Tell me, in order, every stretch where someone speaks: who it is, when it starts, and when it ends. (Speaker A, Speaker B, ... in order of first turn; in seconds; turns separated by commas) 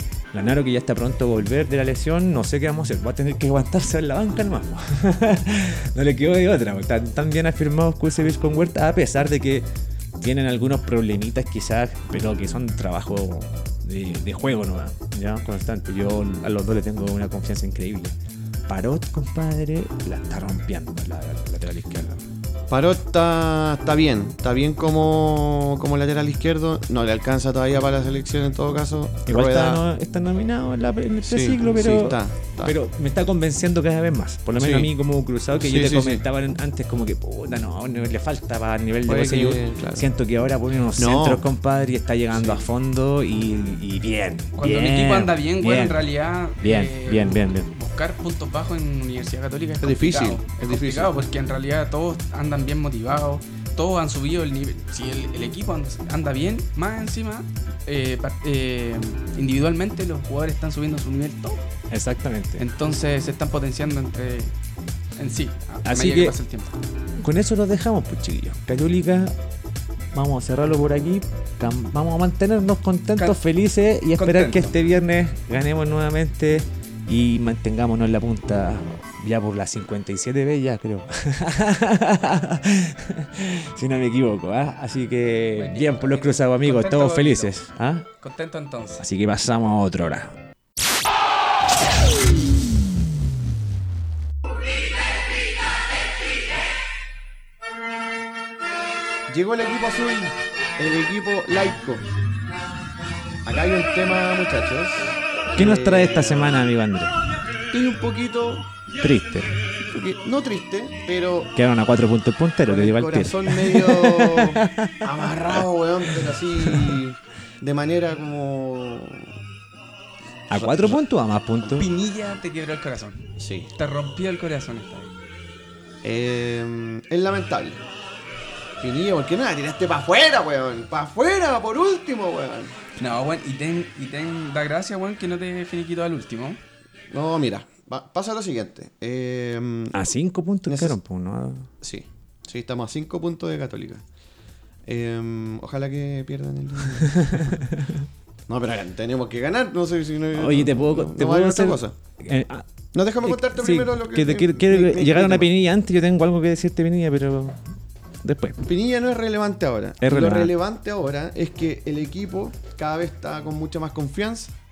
Speaker A: 0.3-18.1, Speaker A: 18.7-22.2, Speaker B: 22.7-29.8, Speaker A: 29.3-47.7, Speaker B: 31.2-32.7, Speaker B: 34.6-34.9, Speaker B: 35.6-36.2, Speaker B: 39.0-40.1, Speaker B: 41.0-41.4, Speaker C: 44.6-61.6, Speaker B: 49.8-51.2, Speaker A: 61.9-62.6, Speaker C: 62.6-64.5, Speaker C: 65.2-66.8, Speaker A: 65.8-66.3, Speaker A: 67.2-69.3, Speaker A: 70.1-88.1, Speaker C: 74.1-74.7, Speaker C: 85.5-87.5, Speaker C: 88.2-89.0, Speaker A: 89.0-90.4, Speaker B: 99.3-102.1, Speaker B: 103.4-106.7, Speaker A: 105.5-107.2, Speaker B: 107.7-108.7, Speaker A: 109.0-109.5, Speaker B: 109.9-111.5, Speaker A: 111.5-117.0, Speaker B: 112.7-119.3, Speaker A: 120.5-121.8, Speaker B: 120.5-121.0, Speaker C: 121.8-125.1, Speaker B: 123.4-123.7, Speaker B: 126.0-127.8, Speaker B: 128.8-132.7, Speaker C: 133.0-136.6, Speaker B: 137.1-140.0, Speaker A: 139.9-141.7, Speaker B: 140.7-141.0, Speaker B: 141.8-144.0, Speaker B: 144.8-147.6, Speaker A: 147.2-148.0, Speaker B: 148.5-151.9, Speaker A: 150.3-152.7, Speaker B: 152.9-155.5, Speaker A: 153.2-157.6, Speaker A: 158.2-158.7, Speaker B: 158.6-164.5, Speaker A: 160.0-160.5